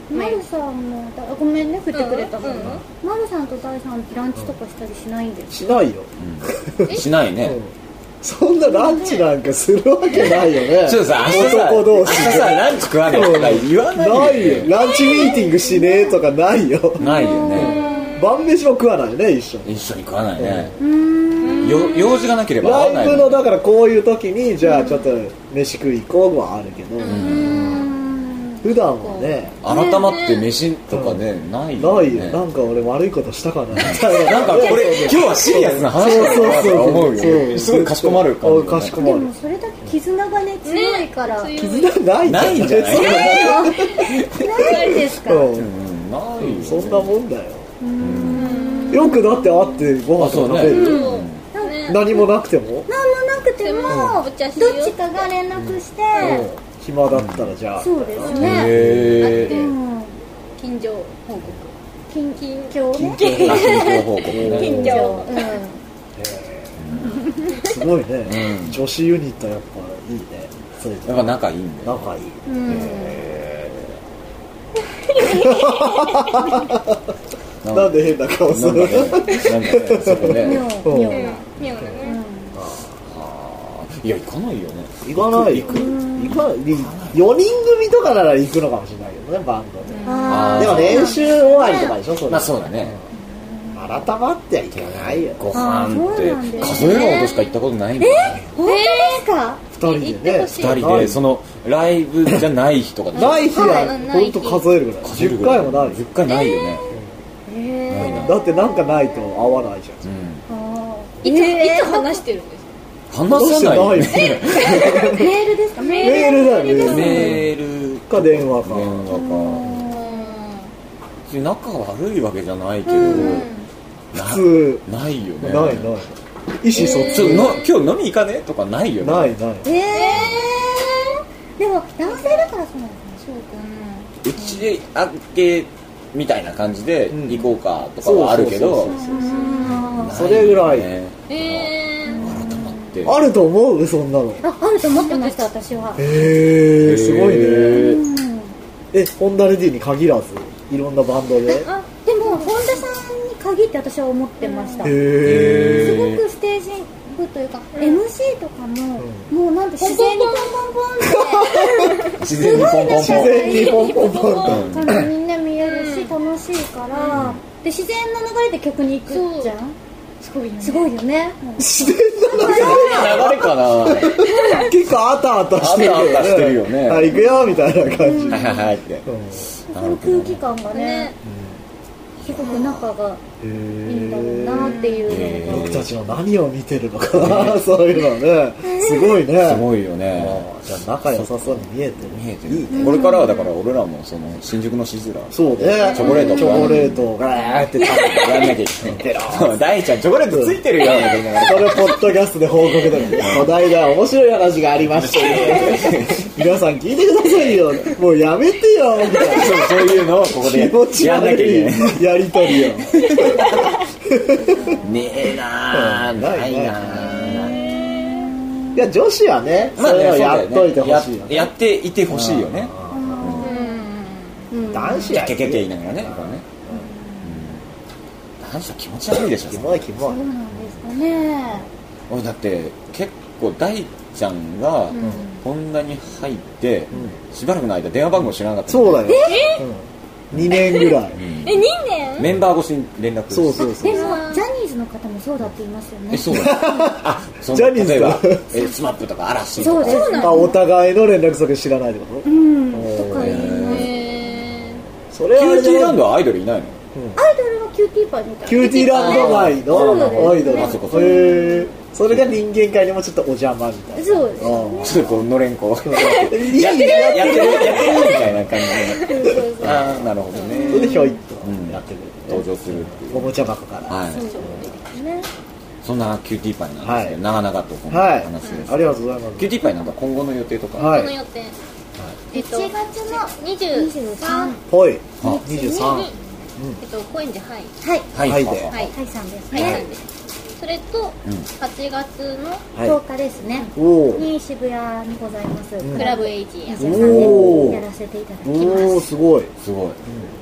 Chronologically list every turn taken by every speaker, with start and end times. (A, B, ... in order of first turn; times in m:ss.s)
0:00.1-0:05.8 A
0:00.1-0:00.4 B
0:01.9-0:02.8 B
0:05.5-0:19.7 C
0:06.2-0:07.6 D
0:08.6-0:09.2 A
0:10.2-0:14.7 D
0:14.7-0:16.2 A
0:17.0-0:17.9 D
0:17.0-0:18.2 A
0:17.5-0:18.3 B
0:19.6-0:20.8 D
0:20.4-0:20.8 C
0:20.8-0:22.0 A
0:21.4-0:22.4 B
0:21.5-0:23.5 D
0:22.6-0:27.9 C
0:24.6-0:25.1 A
0:27.0-0:27.9 B
0:27.0-0:27.8 D
0:27.2-0:28.7 A
0:28.6-0:29.6 C
0:29.0-0:30.5 B
0:29.6-0:32.4 D
0:30.9-0:31.2 C
0:31.8-0:39.3 C
0:33.8-0:39.0 D
0:39.0-0:41.5 A
0:40.6-0:42.0 B
0:41.6-0:44.1 C
0:42.2-0:44.4 D
0:43.0-0:43.4 B
0:43.0-0:45.6 A
0:44.6-0:45.1 B
0:44.7-0:45.7 C
0:45.6-0:47.1 D
0:46.4-0:47.7 C
0:47.8-0:50.0 A
0:48.0-0:48.6 D
0:48.3-0:49.2 B
0:48.9-0:51.2 C
0:50.2-0:51.4 D
0:50.6-0:52.1 B
0:50.6-0:52.2 A
0:51.8-0:52.9 C
0:52.9-0:56.5 A
0:53.6-0:55.2 B
0:53.9-0:54.2 C
0:56.1-0:56.5 B
0:56.2-0:59.2 C
0:57.1-0:57.5 D
0:57.8-0:58.7 A
0:58.2-0:59.7 B
0:58.3-0:59.6 D
0:59.3-1:00.1 A
1:00.6-1:01.6 B
1:02.1-1:03.6 A
1:02.4-1:05.4 B
1:03.0-1:05.2 C
1:03.2-1:05.0 D
1:04.6-1:05.8 A
1:06.2-1:06.7 C
1:06.8-1:07.3 D
1:07.6-1:13.9 C
1:08.3-1:08.8 D
1:11.0-1:12.1 D
1:12.5-1:13.2 A
1:12.7-1:13.2 D
1:15.0-1:16.6 B
1:15.2-1:17.0 C
1:17.6-1:20.7 D
1:17.7-1:21.3 C
1:20.2-1:21.4 A
1:21.1-1:22.2 B
1:22.0-1:22.6 A
1:22.6-1:22.9 C
1:23.1-1:27.3 D
1:25.0-1:33.0 C
1:25.7-1:26.5 A
1:29.9-1:30.8 B
1:30.0-1:32.0 A
1:30.3-1:31.2 D
1:32.3-1:33.0 D
1:33.3-1:34.0 A
1:33.8-1:35.5 C
1:34.7-1:38.4 D
1:35.5-1:37.2 A
1:36.6-1:37.6 B
1:38.0-1:39.6 A
1:38.6-1:39.2 B
1:39.7-1:41.2 C
1:39.8-1:41.0 B
1:40.6-1:43.5 D
1:43.1-1:44.7 B
1:43.1-1:46.0 C
1:43.5-1:43.9 A
1:45.0-1:46.8 D
1:46.3-1:46.8 A
1:47.5-1:49.5 A
1:47.9-1:48.3 D
1:48.0-1:50.0 C
1:50.0-1:50.4 D
1:50.5-1:52.2 A
1:51.2-1:52.7 B
1:53.1-1:55.1 D
1:53.3-1:55.3 C
1:54.6-1:57.3 A
1:54.7-1:54.9 B
1:55.8-1:57.4 B
1:56.0-1:57.5 C
1:56.8-1:59.8 D
1:58.1-1:59.0 C
1:59.1-2:00.3 A
1:59.9-2:00.7 B
2:01.3-2:03.5 D
2:02.9-2:03.5 A
2:03.0-2:03.7 B
2:04.1-2:05.9 D
2:04.1-2:04.8 C
2:05.4-2:07.6 C
2:06.7-2:07.7 B
2:06.8-2:09.4 D
2:09.0-2:09.7 C
2:09.6-2:13.2 A
2:09.9-2:10.4 B
2:12.1-2:12.5 B
2:13.2-2:14.1 B
2:14.2-2:19.0 D
2:17.1-2:17.5 C
2:18.0-2:19.3 C
2:18.9-2:20.2 A
2:19.1-2:19.8 B
2:19.6-2:23.2 D
2:20.0-2:20.9 C
2:21.3-2:22.4 B
2:22.1-2:23.0 A
2:23.0-2:24.4 C
2:24.4-2:26.1 A
2:25.0-2:25.4 B
2:26.0-2:28.0 C
2:26.7-2:28.0 D
2:27.6-2:28.6 A
2:28.9-2:31.7 C
2:31.5-2:49.8 A
2:31.6-2:32.7 B
2:34.4-2:35.0 B
2:34.8-2:36.1 C
2:35.2-2:36.2 D
2:37.8-2:38.0 B
2:39.8-2:40.6 B
2:41.0-2:42.0 C
2:41.7-2:42.1 B
2:42.2-2:43.6 D
2:42.5-2:45.0 C
2:43.2-2:44.6 B
2:44.5-2:45.1 D
2:45.6-2:46.1 B
2:46.9-2:47.2 B
2:49.1-2:49.5 B
2:50.2-2:50.9 B
2:50.6-2:53.4 A
2:51.6-2:59.5 C
2:52.3-2:54.3 D
2:54.3-2:54.7 B
2:55.6-2:57.2 D
2:57.1-2:58.6 A
2:57.8-2:59.1 D
2:59.6-3:01.1 A
2:59.7-3:00.4 D
3:00.7-3:01.2 B
3:01.2-3:01.6 C
3:02.2-3:02.8 D
3:02.3-3:03.2 A
3:03.4-3:04.8 C
3:03.9-3:05.7 A
3:04.6-3:05.2 B
3:05.1-3:05.9 D
3:05.5-3:13.1 C
3:07.2-3:07.6 D
3:08.6-3:09.1 A
3:09.4-3:10.5 D
3:11.0-3:17.1 D
3:12.7-3:13.5 A
3:15.3-3:19.6 C
3:16.0-3:16.9 A
3:17.8-3:22.2 D
3:20.3-3:29.7 C
3:23.1-3:23.5 D
3:24.8-3:26.3 D
3:29.1-3:32.0 D
3:30.3-3:34.8 C
3:33.0-3:33.7 D
3:34.5-3:34.9 A
3:34.8-3:37.8 D
3:35.7-3:37.6 C
3:37.1-3:38.3 B
3:37.5-3:38.7 A
3:38.7-3:41.5 C
3:39.8-3:43.5 D
3:42.1-3:43.4 C
3:42.9-3:43.8 A
3:43.4-3:44.4 B
3:44.5-3:45.2 A
3:44.7-3:46.8 C
3:45.1-3:46.4 D
3:46.7-3:47.3 A
3:47.2-3:47.6 D
3:48.4-3:49.8 D
3:49.4-3:50.3 C
3:50.0-3:51.7 A
3:52.1-3:59.2 D
3:58.7-4:01.2 C
3:59.1-3:59.6 A
3:59.3-3:59.6 B
4:00.3-4:01.6 D
4:00.5-4:02.3 B
4:02.2-4:03.8 D
4:03.3-4:04.2 C
4:03.6-4:06.7 A
4:03.8-4:04.4 B
4:06.1-4:10.2 D
4:06.3-4:08.5 C
4:09.6-4:10.6 A
4:09.8-4:10.6 B
4:10.1-4:13.5 C
4:12.2-4:13.9 A
4:13.1-4:14.0 D
4:13.5-4:14.8 B
4:15.1-4:16.1 C
4:15.4-4:16.8 D
4:17.2-4:21.7 A
4:18.5-4:25.2 C
4:18.8-4:21.4 D
4:24.0-4:25.0 A
4:24.8-4:34.3 D
4:25.9-4:28.5 C
4:26.6-4:28.1 B
4:28.9-4:29.7 B
4:29.0-4:31.2 A
4:30.3-4:30.7 B
4:30.7-4:34.0 C
4:34.1-4:35.3 A
4:34.2-4:34.8 B
4:35.8-4:41.1 D
4:36.8-4:37.2 C
4:37.9-4:39.5 C
4:40.8-4:41.6 B
4:40.8-4:41.2 C
4:42.3-4:44.6 A
4:42.3-4:44.6 B
4:44.7-4:46.8 C
4:45.2-4:46.1 A
4:45.8-4:46.2 B
4:46.8-4:47.7 B
4:47.8-4:48.1 A
4:48.1-4:48.8 D
4:48.2-4:48.7 C
4:48.7-4:49.9 A
4:49.5-4:50.0 B
4:50.6-4:52.6 B
4:52.8-4:59.1 A
4:53.8-4:54.2 C
4:55.8-4:56.1 C
4:55.9-4:57.4 B
4:56.8-4:57.8 C
4:58.4-4:59.5 C
4:59.6-5:00.0 D